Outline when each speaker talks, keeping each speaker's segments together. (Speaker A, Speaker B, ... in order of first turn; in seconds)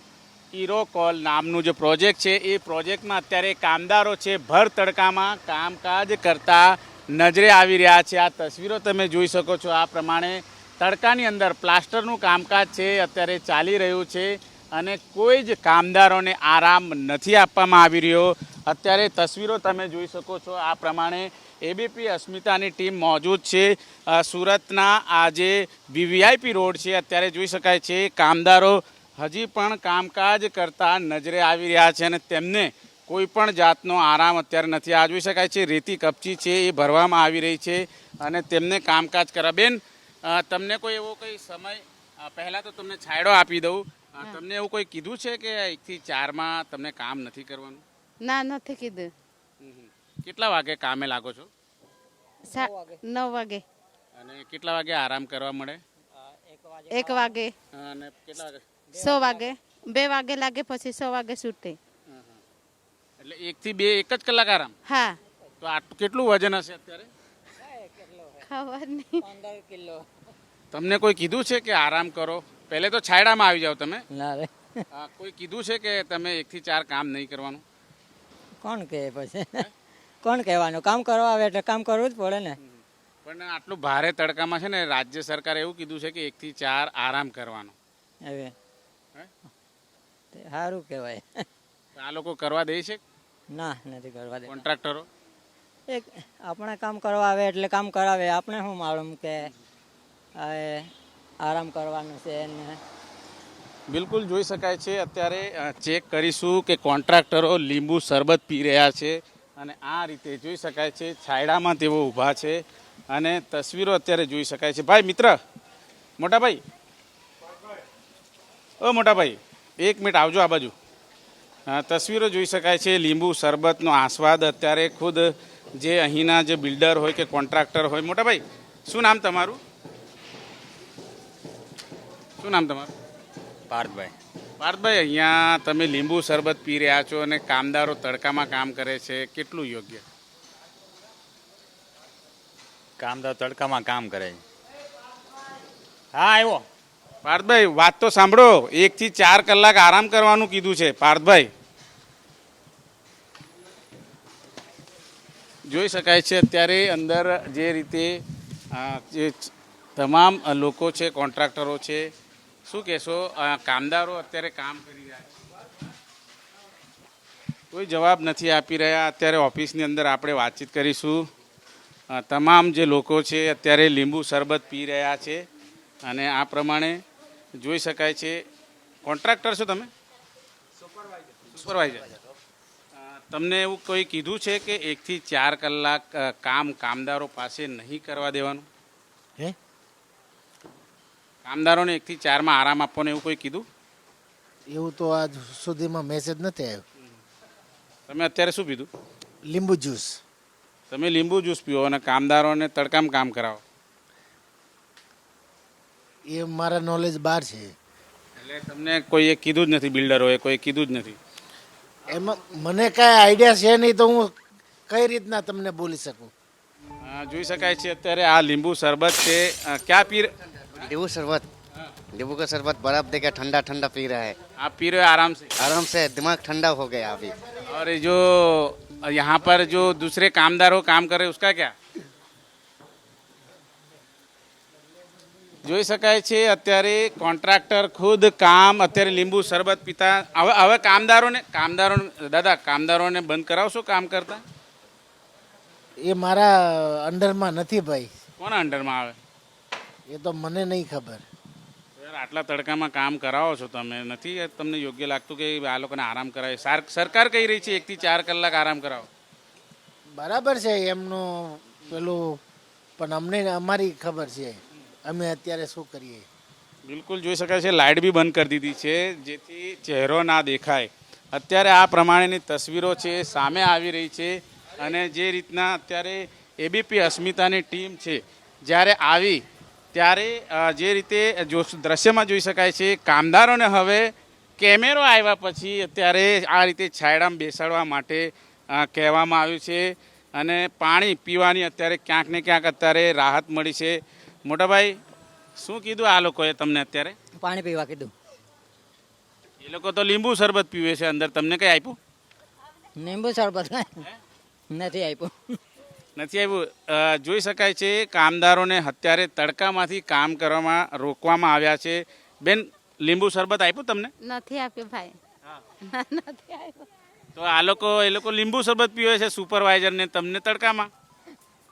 Speaker A: 0.5-47.8, 49.6-51.5, 54.1-55.8, 57.7-58.6, 62.1-62.4, 63.2-64.8, 65.6-67.1, 70.7-74.0, 74.9-77.6, 82.6-87.8, 92.0-93.0, 94.5-95.1, 103.9-115.4, 116.2-116.6, 118.8-120.8, 121.7-129.6, 132.4-132.9, 134.6-140.1, 147.2-151.5, 155.7-162.1, 162.7-165.4, 167.7-171.3, 172.1-175.4, 176.0-177.0, 177.6-178.4, 179.1-179.9, 181.4-182.1, 182.9-188.7, 191.4-193.7, 198.1-198.9, 200.9-203.6, 208.4-211.2, 217.0-220.9, 224.6-225.5, 227.7-231.8, 235.7-244.4, 248.4-249.2, 252.0-259.1, 266.9-279.4, 279.9-295.0, 295.6-297.2, 299.6-302.0, 306.2-314.1, 317.4-320.9
Speaker B: 48.2-49.1, 52.5-53.6, 56.9-57.5, 59.0-61.8, 64.9-65.2, 68.5-69.2, 314.2-315.2, 315.8-316.9
Speaker C: 52.5-53.0, 56.3-57.4, 58.9-59.5, 67.6-68.5, 69.2-70.1, 74.1-74.8, 78.6-79.7, 80.2-82.6, 88.2-88.5, 90.3-91.5, 93.5-94.6, 95.9-99.5, 100.4-102.8, 297.4-298.1, 303.0-304.1, 304.7-305.6
Speaker D: 133.7-134.2, 143.0-144.4, 146.1-146.7
Speaker E: 194.7-196.8, 199.5-200.2, 206.3-207.7, 212.1-214.3, 214.9-216.3, 246.0-248.1, 250.1-251.2, 260.2-262.4, 263.0-266.3
Speaker F: 220.8-221.5, 222.1-224.4, 225.6-227.4